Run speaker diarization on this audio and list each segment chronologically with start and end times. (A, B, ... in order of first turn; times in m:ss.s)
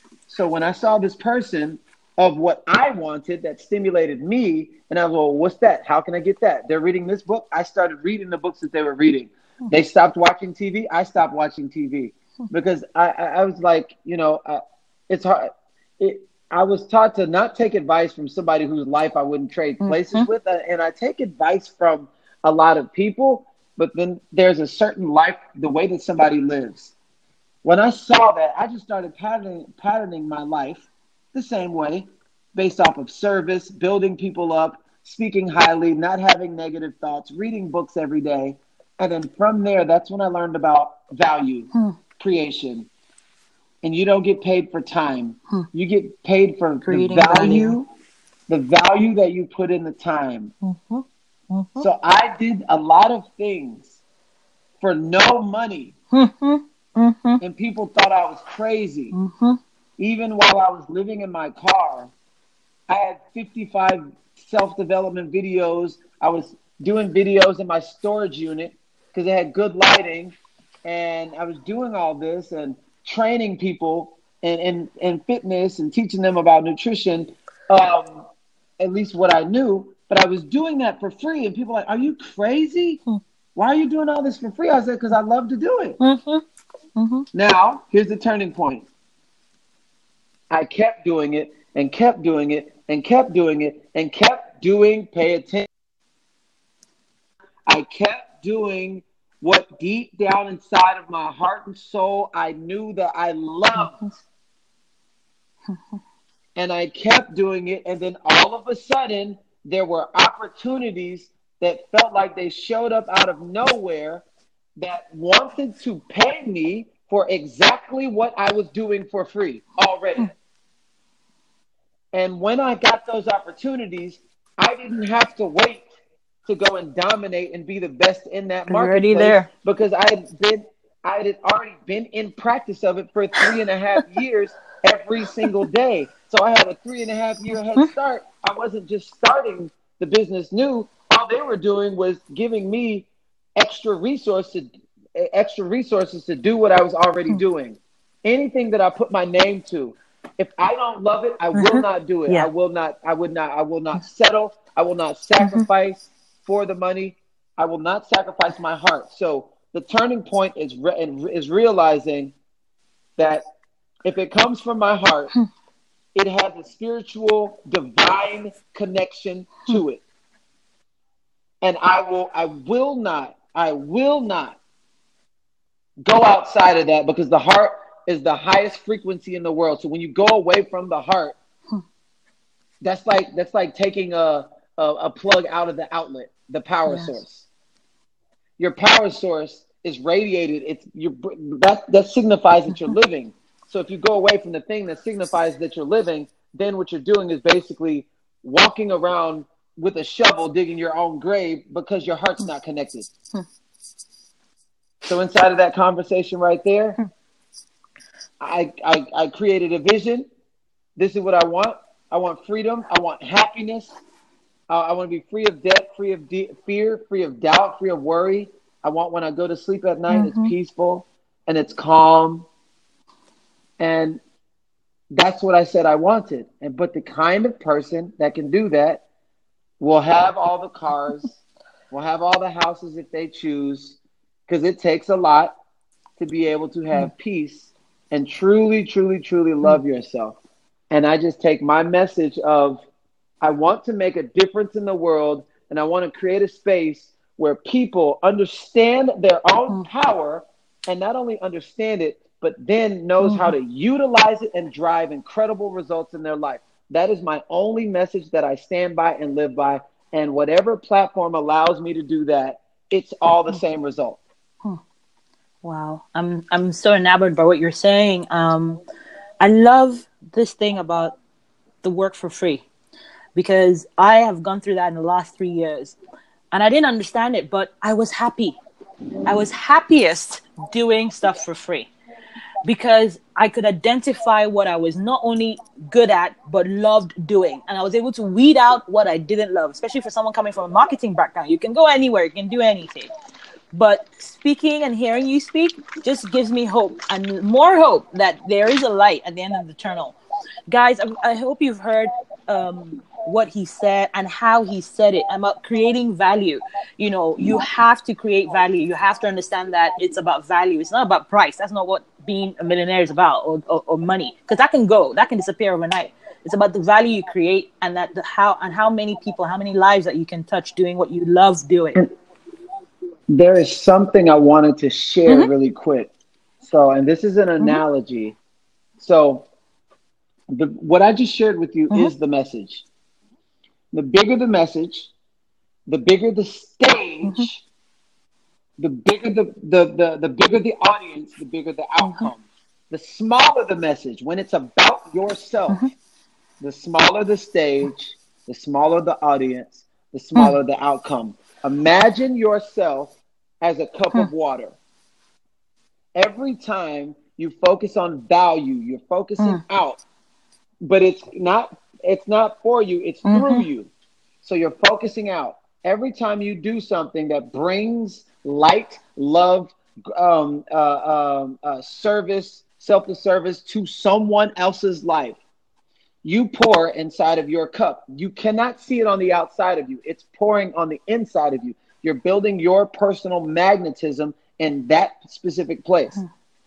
0:00.3-0:26.9 A
0:19.8-0:20.3 B
0:27.6-0:42.9 A
0:43.8-0:47.9 A
0:46.8-0:47.8 B
0:48.5-0:50.5 A
0:50.6-0:51.9 B
0:51.8-0:54.0 A
0:54.8-0:55.9 A
0:56.1-0:57.4 B
0:57.4-0:59.1 A
0:59.1-0:59.6 B
1:00.0-1:02.1 A
1:02.9-1:18.3 A
1:18.8-1:23.0 A
1:23.6-1:26.0 A
1:26.0-1:26.4 B
1:27.0-1:27.2 B
1:27.3-1:28.8 A
1:30.5-1:35.7 A
1:37.7-1:44.0 A
1:43.8-1:44.1 B
1:46.6-1:54.2 A
1:54.8-2:00.3 A
2:02.1-2:05.8 A
2:06.4-2:42.3 A
2:08.7-2:09.5 B
2:31.5-2:32.5 B
2:35.4-2:35.6 B
2:43.2-2:43.4 A
2:44.0-2:45.3 A
2:46.1-2:50.0 A
2:51.6-2:54.6 A
2:56.0-3:01.4 A
3:02.8-3:07.5 A
3:06.9-3:07.2 B
3:08.6-3:23.1 A
3:25.0-3:27.0 A
3:28.4-3:30.3 A
3:31.0-3:33.9 A
3:34.7-3:42.5 A
3:40.1-3:40.5 B
3:43.8-3:44.2 A
3:45.1-3:49.0 A
3:49.8-3:51.4 A
3:51.9-3:55.5 A
3:56.2-4:00.4 A
4:00.9-4:02.8 A
4:03.4-4:24.2 A
4:13.2-4:13.5 B
4:25.6-4:28.8 B
4:29.4-4:31.2 B
4:31.8-4:32.6 B
4:33.3-4:36.0 B
4:36.5-4:38.6 B
4:39.2-4:41.9 B
4:42.6-4:53.1 B
4:53.7-5:00.2 B
5:00.7-5:22.0 B
5:23.3-5:26.1 A
5:26.6-5:28.4 A
5:29.0-5:29.5 A
5:30.5-5:32.8 A
5:33.9-5:35.1 A
5:35.9-5:37.6 A
5:37.2-5:37.5 B
5:38.8-5:45.8 A
5:42.0-5:42.3 B
5:46.6-5:54.8 A
5:56.1-6:00.0 A
6:00.8-6:03.9 A
6:03.2-6:03.6 B
6:04.4-6:15.4 A
6:16.2-6:26.2 A